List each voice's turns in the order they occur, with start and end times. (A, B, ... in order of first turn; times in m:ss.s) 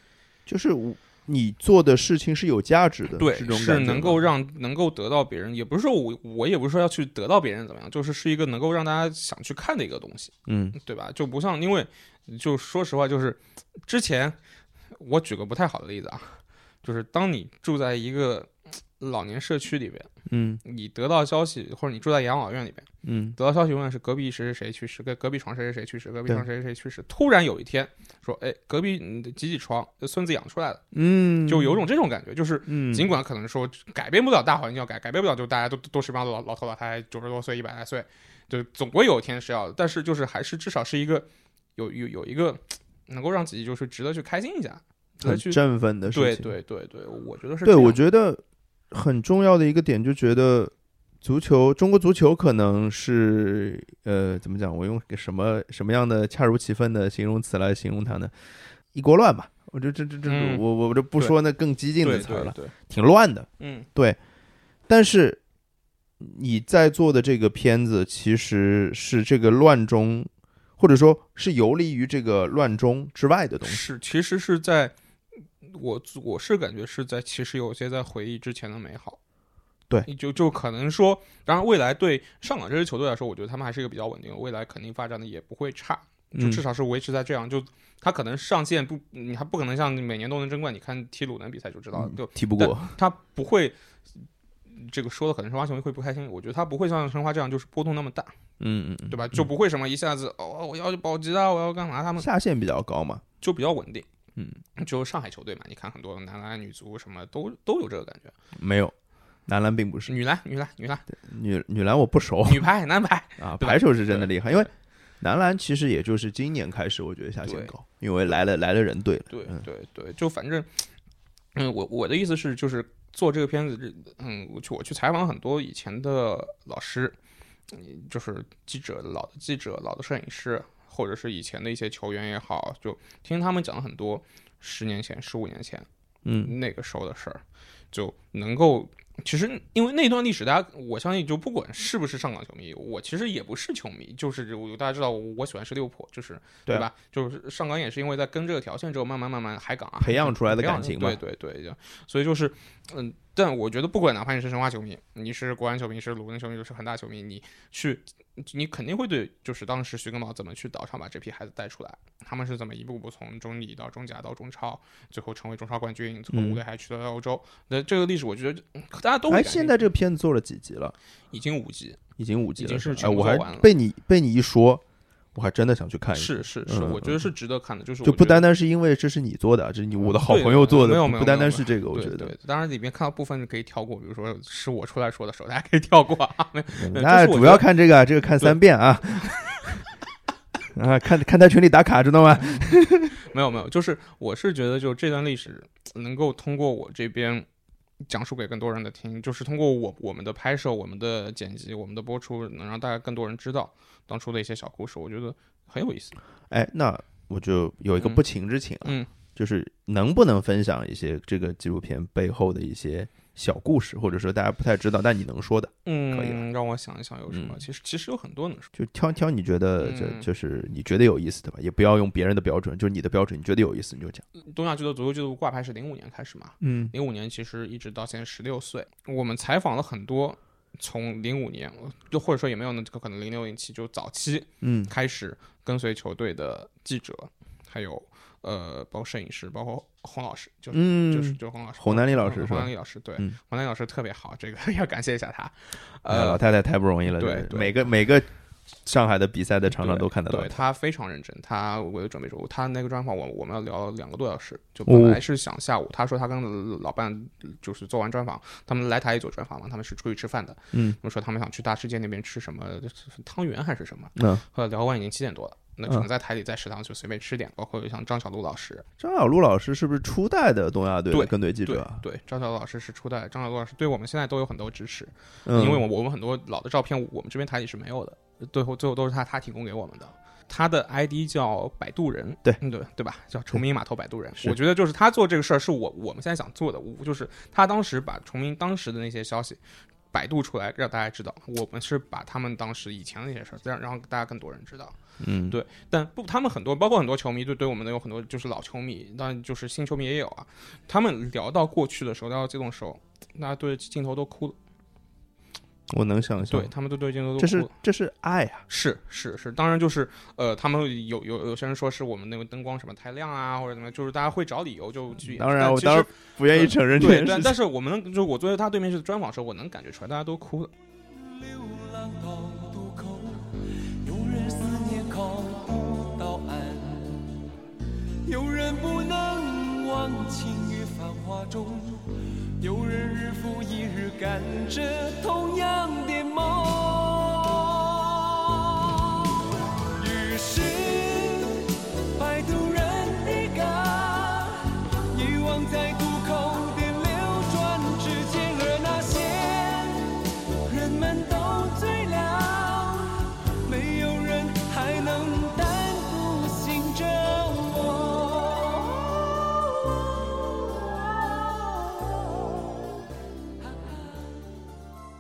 0:00.5-0:04.3 A
0:03.2-0:14.4 B
0:10.5-0:10.8 A
0:14.9-0:20.1 B
0:20.3-0:20.6 A
0:20.6-0:30.8 B
0:23.0-0:23.4 A
0:30.9-0:31.8 A
0:31.4-0:45.6 B
0:32.7-0:33.2 A
0:45.2-0:46.5 A
0:46.1-0:48.0 B
0:47.6-0:58.3 A
0:58.9-1:04.2 A
1:00.2-1:00.6 B
1:02.0-1:02.7 B
1:03.6-1:03.9 B
1:04.9-1:05.4 A
1:06.2-1:13.8 A
1:13.6-1:14.9 B
1:15.6-1:19.2 B
1:20.1-1:38.4 B
1:26.3-1:26.6 A
1:31.9-1:32.9 A
1:38.6-1:39.5 A
1:39.1-1:42.3 B
1:42.2-1:43.2 A
1:43.4-1:44.1 B
1:44.8-1:48.3 B
1:48.6-1:49.0 A
1:49.5-1:50.1 A
1:50.1-1:51.1 B
1:51.1-1:52.7 A
1:52.4-1:54.7 B
1:53.4-1:54.7 A
1:55.2-1:59.6 A
1:57.4-1:57.7 B
1:59.3-2:00.9 B
2:01.6-2:07.2 B
2:07.7-2:15.9 B
2:16.2-2:16.5 A
2:16.4-2:49.8 B
2:30.0-2:31.2 A
2:46.3-2:46.6 A
2:49.3-2:51.0 A
2:51.3-2:52.0 B
2:52.2-2:54.8 A
2:52.6-2:53.7 B
2:55.4-2:57.3 A
2:56.2-2:58.5 B
2:58.0-3:02.4 A
3:00.0-3:07.7 B
3:06.8-3:09.8 A
3:10.8-3:13.2 A
3:13.2-3:17.5 B
3:18.1-3:26.2 B
3:26.5-3:36.4 A
3:35.9-3:38.7 B
3:37.3-3:37.6 A
3:38.8-3:44.2 A
3:39.8-3:40.3 B
3:44.4-4:06.4 B
3:46.6-3:46.9 A
3:54.6-3:54.9 A
4:00.7-4:03.4 A
4:06.1-4:08.3 A
4:07.1-4:07.9 B
4:08.8-4:10.6 A
4:09.7-4:28.8 B
4:14.9-4:15.2 A
4:20.7-4:21.0 A
4:24.2-4:24.4 A
4:29.0-4:32.0 A
4:31.1-4:49.6 B
4:35.5-4:35.8 A
4:50.1-5:04.6 B
4:55.2-4:55.6 A
5:05.9-5:06.7 A
5:06.5-5:07.7 B
5:07.4-5:08.6 A
5:08.7-5:20.7 B
5:15.2-5:17.6 A
5:21.1-5:27.4 C
5:28.2-5:59.2 C
6:01.0-6:02.0 C
6:03.6-6:04.4 C